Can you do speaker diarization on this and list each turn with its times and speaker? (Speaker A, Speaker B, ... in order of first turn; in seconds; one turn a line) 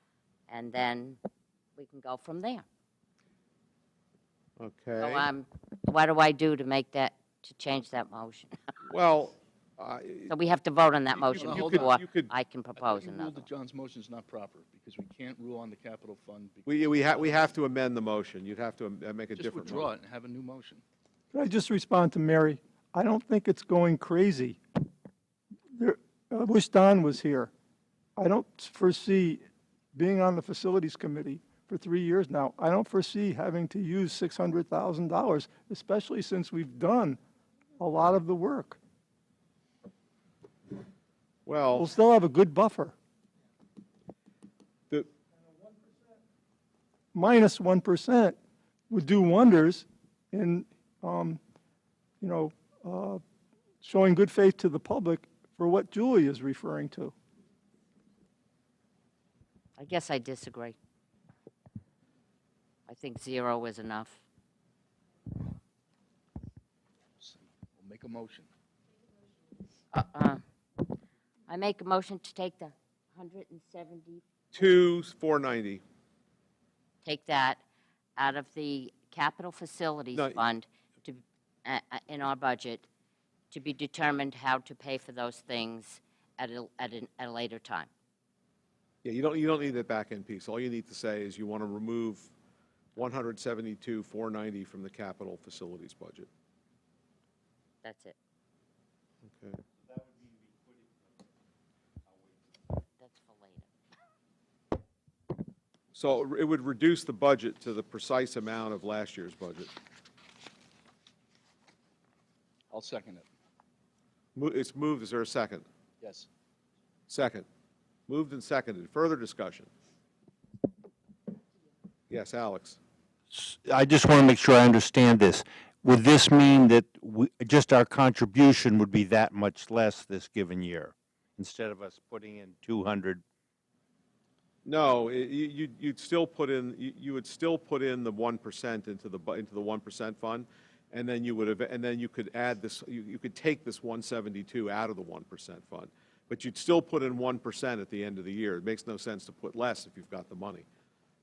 Speaker A: 0.5-1.2
Speaker A: 1.8-2.7
Speaker B: 4.6-5.3
Speaker A: 5.0-8.7
Speaker B: 8.9-10.3
Speaker A: 10.3-13.5
Speaker B: 11.2-12.3
Speaker C: 11.4-12.0
Speaker C: 12.8-17.5
Speaker B: 16.7-19.9
Speaker C: 19.4-20.8
Speaker D: 21.3-24.6
Speaker D: 25.7-27.5
Speaker D: 28.2-37.2
Speaker D: 37.8-38.8
Speaker B: 41.5-41.9
Speaker D: 41.8-42.9
Speaker D: 47.1-48.4
Speaker D: 48.9-51.4
Speaker D: 52.2-53.2
Speaker D: 53.8-57.1
Speaker A: 59.8-60.8
Speaker A: 62.9-64.2
Speaker C: 67.2-68.5
Speaker A: 69.9-70.4
Speaker A: 71.5-74.2
Speaker B: 74.5-75.8
Speaker A: 77.0-77.6
Speaker A: 78.2-82.9
Speaker B: 80.1-80.4
Speaker A: 83.5-87.9
Speaker B: 89.0-92.3
Speaker B: 93.0-96.3
Speaker A: 97.8-98.2
Speaker B: 99.2-99.6
Speaker A: 103.0-103.7
Speaker B: 105.9-109.7
Speaker C: 112.7-113.3
Speaker B: 114.3-115.7
Speaker C: 116.0-116.3
Speaker B: 117.1-117.5
Speaker B: 118.1-119.7
Speaker B: 122.1-122.8
Speaker E: 123.3-133.2
Speaker B: 134.7-150.7